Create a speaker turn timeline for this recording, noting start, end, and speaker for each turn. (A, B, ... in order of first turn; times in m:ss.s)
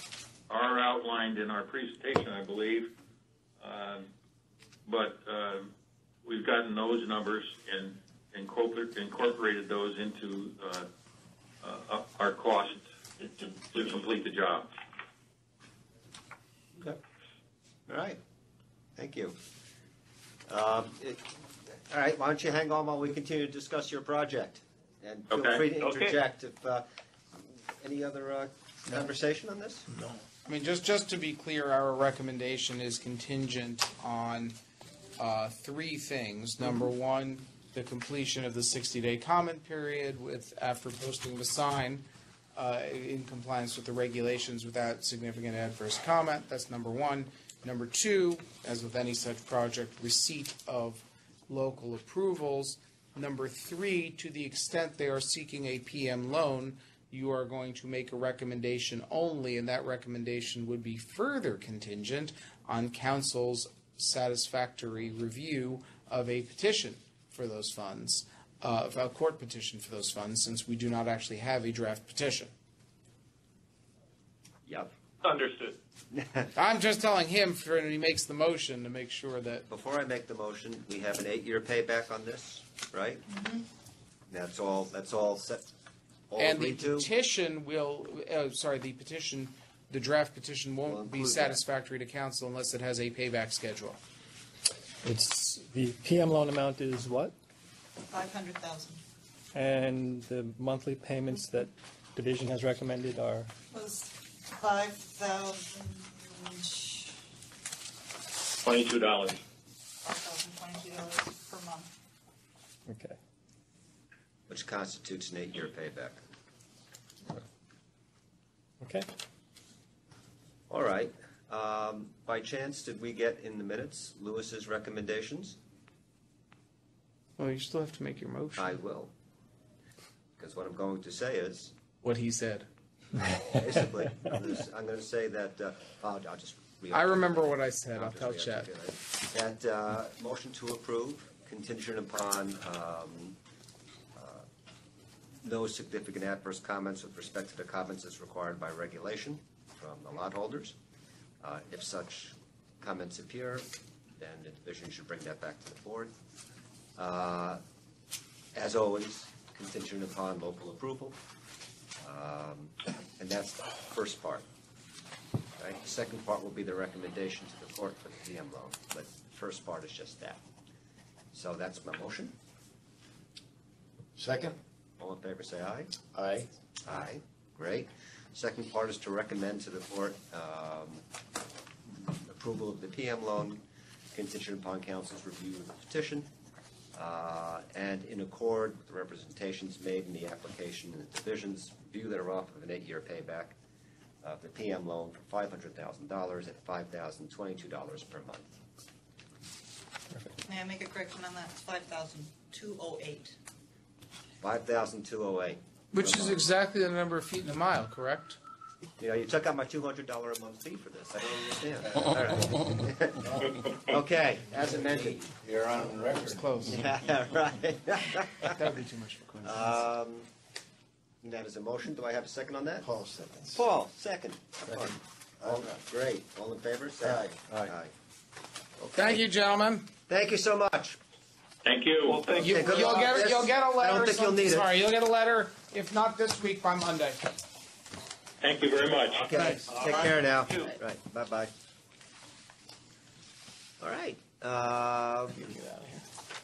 0:00.5-0:02.9 A
0:03.6-0:04.1 A
0:04.8-0:05.7 A
0:06.2-0:10.9 A
0:11.6-0:12.8 A
0:13.6-0:14.7 A
0:17.9-0:18.2 B
0:19.0-0:19.4 B
0:20.5-0:26.8 B
0:25.3-0:26.2 C
0:27.4-0:29.9 B
0:30.4-0:34.6 D
0:35.2-1:12.5 D
1:15.2-1:15.8 C
1:16.1-1:16.5 B
1:16.5-1:19.7 D
1:19.7-1:23.2 B
1:23.3-1:23.6 E
1:24.3-1:25.6 B
1:26.3-1:27.1 B
1:26.4-1:34.0 D
1:30.9-1:31.6 B
1:35.0-1:37.3 F
1:38.1-1:39.0 E
1:39.5-1:43.5 F
1:43.7-1:47.1 E
1:48.6-1:49.4 C
1:50.0-1:51.9 E
1:52.9-1:53.2 F
1:54.5-1:56.2 B
1:58.8-1:59.1 F
2:00.7-2:05.6 B
2:07.4-2:08.8 D
2:08.6-2:09.1 B
2:10.4-2:11.7 B
2:12.0-2:12.7 D
2:13.4-2:23.4 B
2:16.9-2:18.7 D
2:24.1-2:24.4 B
2:25.4-2:30.8 B
2:31.4-2:36.1 B
2:37.0-2:37.6 B
2:38.5-2:41.2 B
2:42.0-2:44.4 B
2:45.6-2:50.4 B
2:51.3-2:52.3 B
2:54.2-2:54.6 G
2:55.0-2:55.9 B
2:56.1-2:56.5 G
2:56.8-3:01.0 B
3:02.2-3:06.3 B
3:06.9-3:13.6 B
3:14.2-3:18.6 B
3:20.1-3:20.4 F
3:20.4-3:23.4 E
3:24.4-3:26.4 B
3:25.9-3:28.4 D
3:29.0-3:35.3 B
3:31.8-3:33.7 G
3:34.5-3:36.9 G
3:36.2-3:36.8 D
3:36.7-3:38.6 B
3:38.4-3:39.5 D
3:39.4-3:39.7 G
3:39.4-3:40.3 B
3:41.2-3:42.8 B
3:42.8-3:43.6 G
3:43.5-3:47.9 B
3:44.7-3:45.8 G
3:47.0-3:47.7 G
3:48.8-3:49.2 B
3:48.9-3:49.9 D
3:50.1-3:51.0 B
3:51.6-3:52.3 A
3:52.1-3:53.0 C
3:52.1-3:54.7 B
3:52.4-3:57.3 D
3:58.4-3:59.4 A
3:59.2-4:01.5 B
3:59.4-3:59.6 D
3:59.6-4:00.7 C
4:03.8-4:05.4 B
4:05.4-4:06.0 D